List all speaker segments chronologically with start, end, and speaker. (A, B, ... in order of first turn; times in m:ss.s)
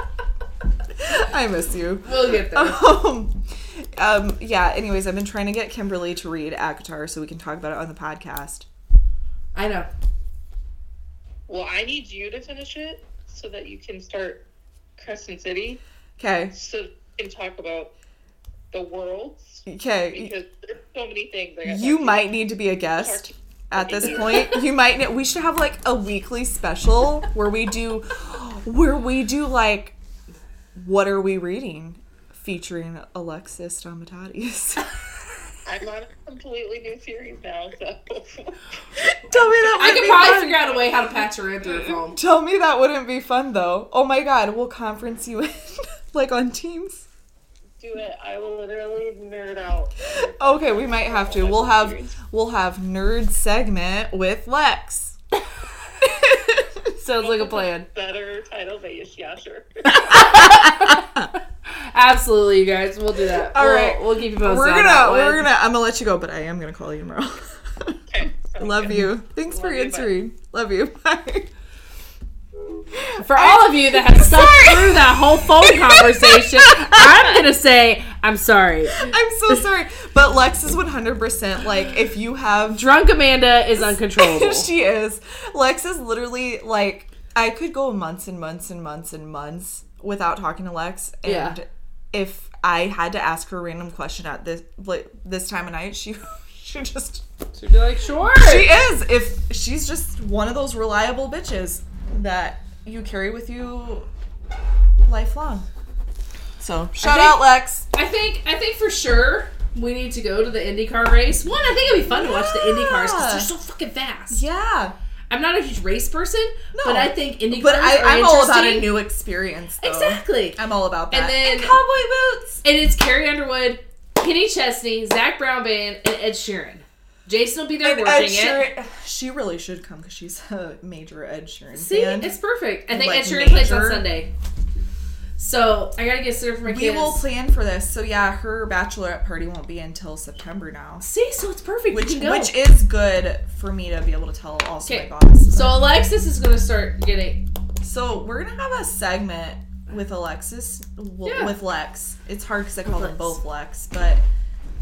0:01.0-0:08.7 A
0:02.0-0:02.9 B
0:09.6-0:09.9 B
0:11.5-0:14.4 C
0:15.0-0:15.8 C
0:16.2-0:16.6 A
0:16.5-0:17.9 C
0:18.7-0:24.6 C
0:19.7-0:20.3 A
0:21.6-0:30.0 A
0:30.8-0:34.9 A
0:35.7-0:41.2 C
0:39.0-0:40.6 A
0:39.8-0:42.2 B
0:41.7-0:47.1 A
0:47.8-0:52.1 C
0:50.4-0:55.2 A
0:56.0-0:56.9 A
0:57.0-0:57.9 B
0:57.2-1:00.5 C
1:00.0-1:01.0 B
1:00.1-1:01.3 A
1:01.9-1:05.4 B
1:03.4-1:08.0 A
1:08.1-1:10.1 C
1:08.6-1:11.5 A
1:12.9-1:17.4 A
1:13.2-1:19.6 B
1:18.9-1:22.9 A
1:22.8-1:24.7 B
1:24.1-1:37.2 A
1:31.2-1:31.6 B
1:37.6-1:38.7 B
1:38.3-1:44.1 A
1:45.1-1:45.7 A
1:46.6-1:47.9 A
1:47.0-1:54.4 B
1:52.1-1:53.5 A
1:54.3-1:55.0 A
1:55.3-1:58.9 B
1:56.7-2:02.6 A
1:59.8-2:00.6 B
2:01.1-2:01.8 B
2:02.6-2:08.6 B
2:07.8-2:12.4 A
2:11.7-2:14.3 B
2:12.9-2:14.1 A
2:15.4-2:17.3 B
2:16.7-2:21.1 A
2:21.0-2:22.6 B
2:21.9-2:25.8 A
2:24.8-2:27.4 B
2:27.8-2:34.2 A
2:31.2-2:31.6 B
2:32.8-2:33.4 B